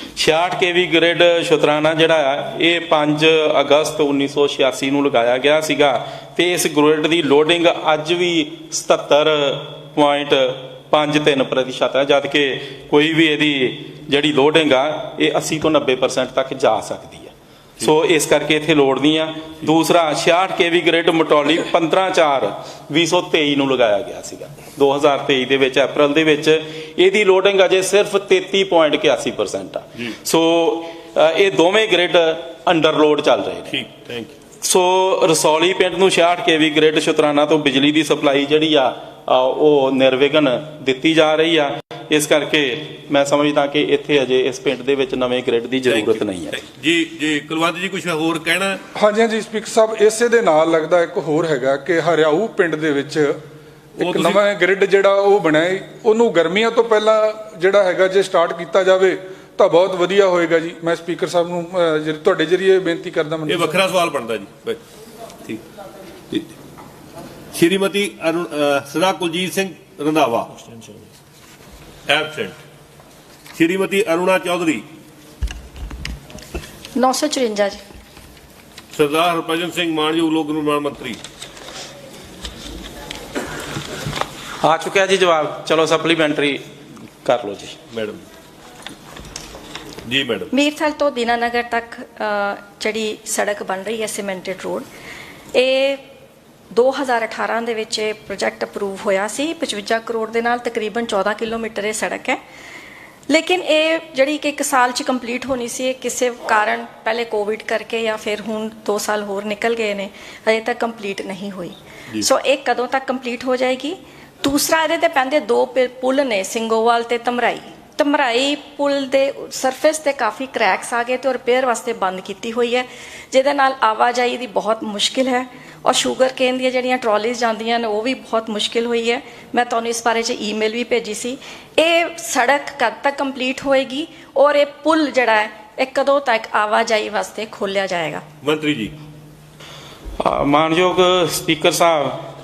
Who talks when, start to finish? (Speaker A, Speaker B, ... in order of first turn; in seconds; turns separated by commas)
Speaker A: 0.2-33.8, Speaker B: 33.7-34.3, Speaker A: 34.6-46.6, Speaker B: 46.8-48.8, Speaker C: 49.0-53.4, Speaker C: 54.0-64.0, Speaker B: 54.0-54.4, Speaker B: 63.5-64.8, Speaker B: 67.5-70.4, Speaker B: 72.1-72.5, Speaker B: 73.6-74.8, Speaker D: 77.0-77.8, Speaker B: 78.9-81.1, Speaker A: 84.6-86.6, Speaker A: 87.2-87.8, Speaker B: 90.1-90.5, Speaker D: 90.5-94.8, Speaker D: 95.5-96.0, Speaker D: 96.7-102.4, Speaker D: 103.3-138.2, Speaker B: 138.4-138.9, Speaker A: 140.2-142.2